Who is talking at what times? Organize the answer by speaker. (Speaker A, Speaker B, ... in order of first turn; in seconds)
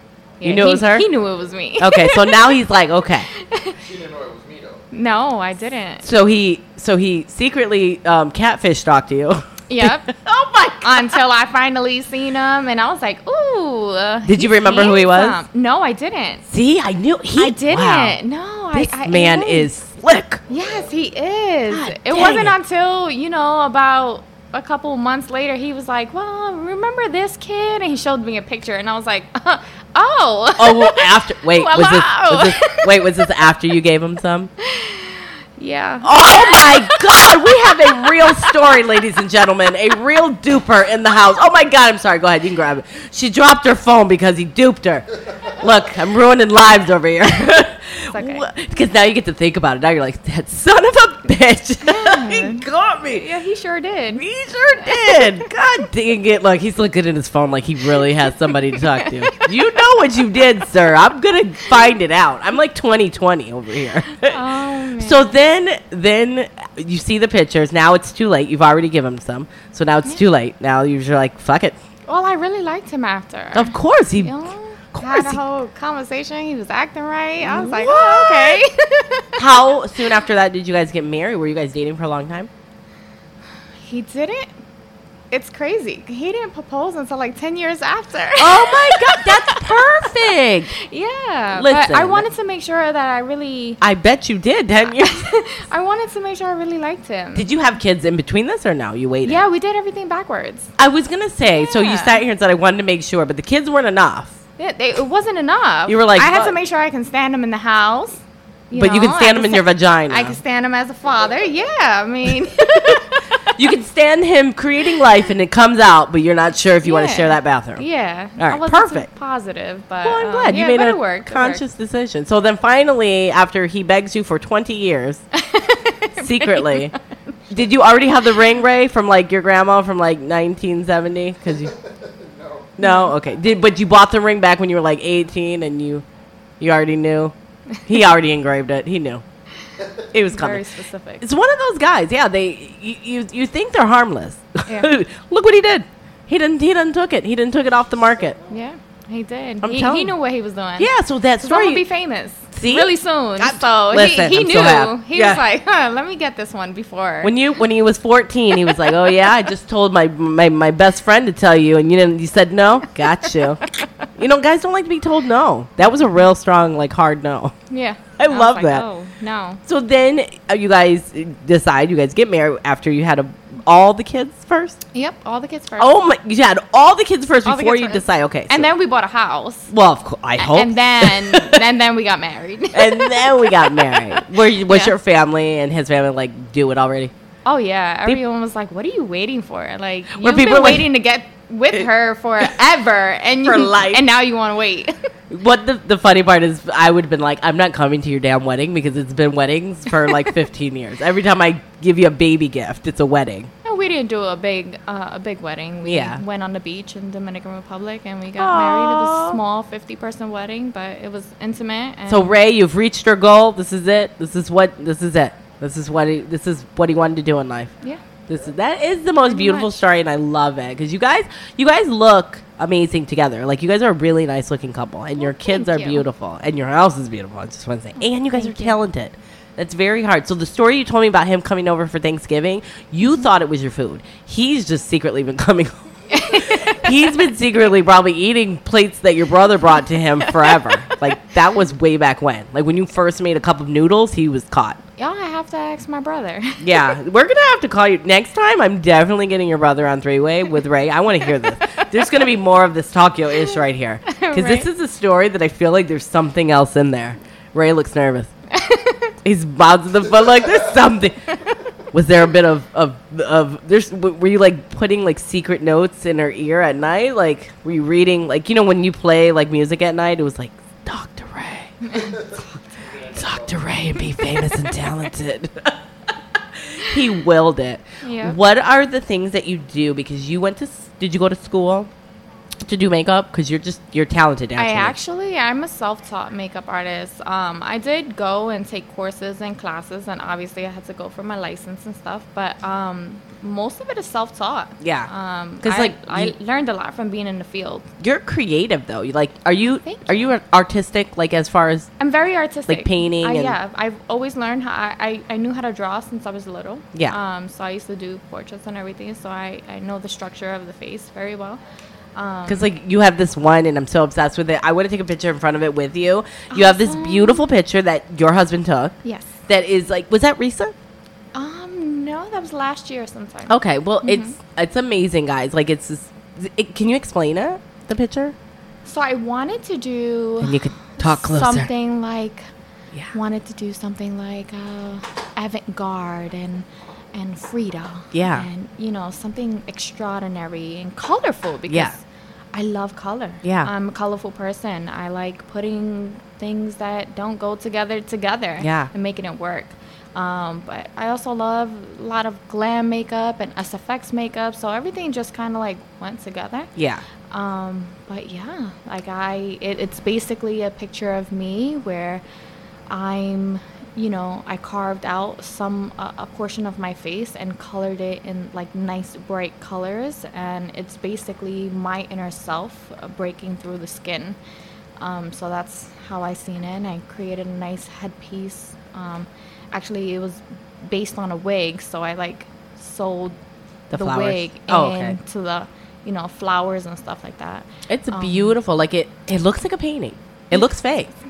Speaker A: 0.4-2.5, 3.4-3.8, 4.9-6.1, 9.7-10.1, 10.8-16.4, 17.4-19.7, 20.5-33.0, 34.6-37.0, 38.0-38.5, 48.1-48.4, 51.8-54.2, 54.8-55.2, 57.9-59.6, 64.2-65.4, 72.1-79.4, 83.8-84.5, 85.3-89.6, 90.8-93.8, 95.0-97.5, 99.2-100.7, 101.5-102.2, 104.6-113.6, 116.8-121.6, 125.3-127.0, 132.8-133.1, 140.3-141.2, 144.7-144.9, 148.5-150.9, 151.4-157.3, 167.7-169.6, 174.9-175.9, 177.4-179.7, 180.4-184.9, 187.4-194.9, 203.7-212.3, 219.3-219.7, 225.2-226.0, 228.0-228.8, 236.1-236.9, 245.0-246.9, 254.1-254.7, 258.5-259.1, 271.8-272.2, 278.0-278.4, 284.6-297.9, 299.8-300.3, 302.0-311.6, 312.1-312.7, 316.5-317.4, 319.0-319.3, 321.3-324.4, 328.9-332.5, 333.1-356.7, 357.3-362.2, 362.9-374.4, 375.0-383.4, 383.9-388.6
Speaker B: 0.4-1.1, 1.8-3.3, 6.0-11.2, 14.3-15.4, 16.5-18.2, 18.7-20.4, 21.7-22.6, 30.6-34.5, 36.0-53.3, 54.2-64.4, 65.0-71.8, 73.5-74.3, 74.9-75.4, 77.4-78.6, 79.4-82.5, 88.4-90.8, 91.5-92.3, 93.8-95.2, 97.3-99.4, 100.8-104.4, 105.9-106.6, 108.7-110.4, 113.6-117.9, 118.4-119.1, 120.0-125.2, 126.2-126.9, 127.5-131.7, 132.8-136.1, 136.6-137.3, 137.9-139.2, 140.1-140.7, 141.2-148.4, 149.6-150.2, 150.8-151.9, 152.5-155.4, 157.2-167.5, 168.2-168.9, 169.7-174.8, 175.8-178.7, 179.7-181.6, 182.7-187.1, 190.2-190.9, 193.4-194.1, 195.3-203.5, 205.8-206.2, 208.4-209.4, 212.1-217.7, 218.3-244.8, 246.6-258.3, 259.2-261.2, 261.9-271.8, 273.1-275.8, 276.6-281.9, 282.6-284.9, 294.8-295.1, 295.6-296.4, 298.0-301.9, 302.7-303.6, 312.5-320.7, 323.5-328.4, 330.4-331.7, 338.1-338.5, 341.7-342.0, 343.4-343.7, 348.6-348.9, 356.8-357.1, 383.9-385.2, 387.9-391.1
Speaker C: 3.8-4.8, 20.5-20.9, 111.1-111.4, 131.5-132.8, 139.8-140.1, 271.9-273.9